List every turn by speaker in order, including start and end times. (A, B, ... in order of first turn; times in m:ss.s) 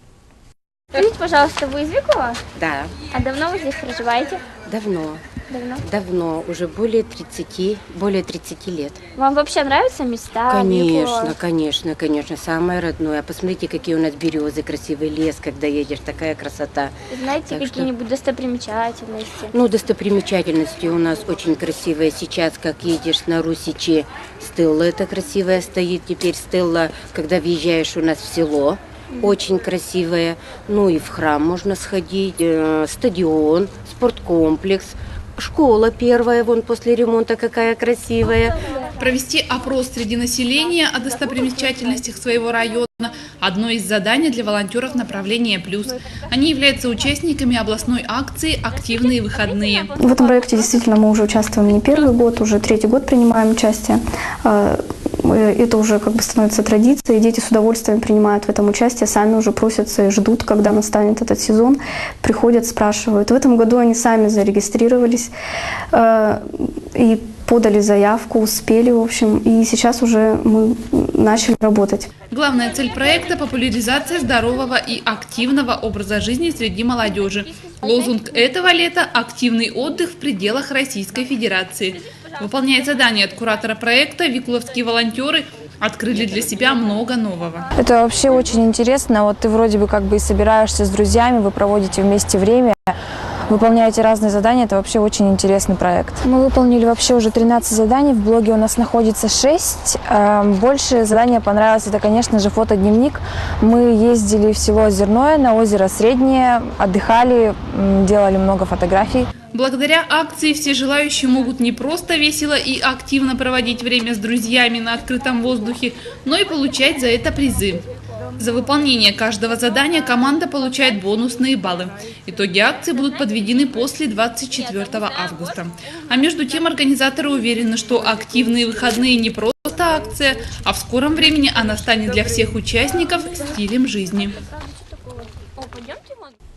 0:00.9-0:02.4 A
0:02.6-0:03.1 B
0:03.0-0:04.4 A
0:04.7-0:05.2 B
0:05.5-0:05.8 A
0:05.8-0:09.0 B
0:09.1-0:11.3 A
0:10.5-0:17.9 B
0:17.1-0:19.5 A
0:19.5-0:38.6 B
0:38.6-0:38.9 A
0:39.0-0:49.9 C
0:48.7-0:50.9 A
0:50.0-1:05.3 D
1:05.9-1:12.1 D
1:12.3-1:27.7 C
1:17.0-1:18.8 A
1:22.1-1:22.4 A
1:27.8-1:32.9 E
1:33.5-1:49.3 E
1:49.5-1:57.8 C
1:58.4-2:14.3 C
2:14.4-2:16.3 A